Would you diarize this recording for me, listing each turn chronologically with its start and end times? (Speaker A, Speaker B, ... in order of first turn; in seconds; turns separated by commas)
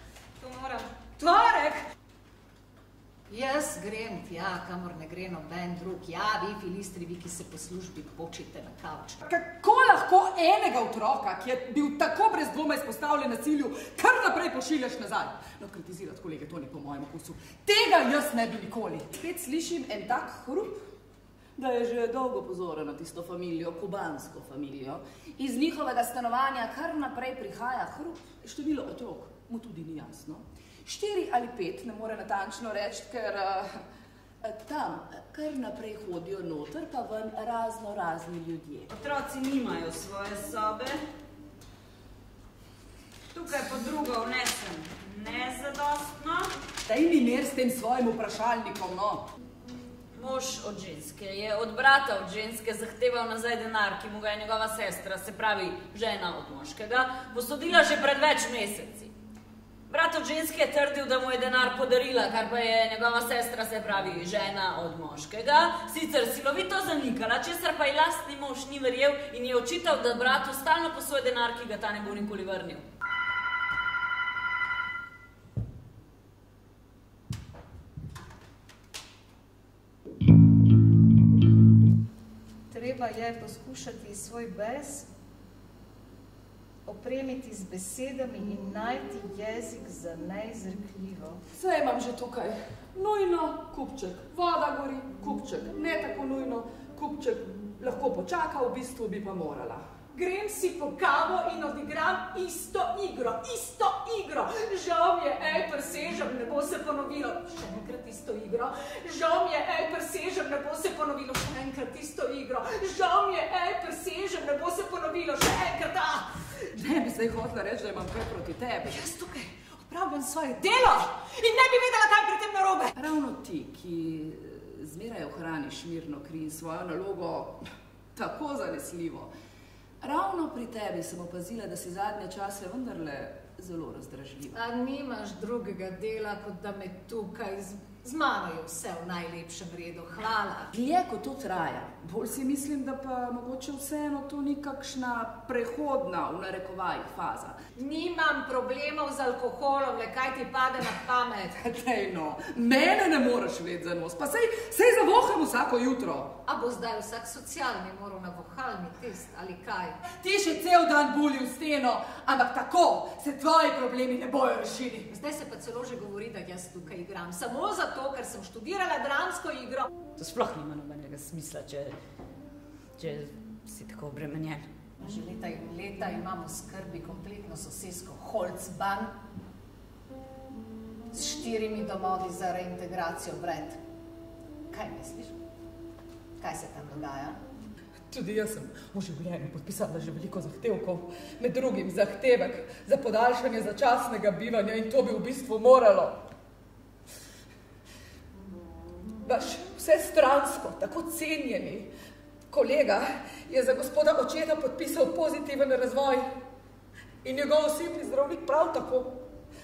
Speaker A: 0.4-1.8, Speaker A: 3.3-9.2, Speaker B: 9.2-20.8, Speaker B: 21.6-33.8, Speaker B: 34.4-38.9, Speaker C: 38.9-41.0, Speaker C: 43.3-46.5, Speaker B: 46.9-49.3, Speaker C: 50.1-59.1, Speaker C: 59.9-72.8, Speaker A: 82.7-85.1, Speaker A: 86.8-91.4, Speaker B: 91.5-99.8, Speaker A: 100.1-116.3, Speaker B: 116.7-119.0, Speaker A: 118.9-122.9, Speaker B: 123.0-127.6, Speaker B: 128.1-129.3, Speaker B: 130.0-134.6, Speaker A: 134.5-140.7, Speaker B: 140.7-147.6, Speaker A: 147.8-151.6, Speaker B: 151.6-156.3, Speaker A: 156.4-160.0, Speaker B: 160.1-165.1, Speaker A: 165.1-169.9, Speaker C: 170.2-171.9, Speaker C: 173.0-174.7, Speaker A: 175.0-179.2, Speaker A: 181.1-183.8, Speaker A: 184.7-185.4, Speaker A: 186.4-187.4, Speaker B: 188.1-196.2, Speaker B: 199.2-201.9, Speaker B: 202.5-206.3, Speaker B: 207.2-209.2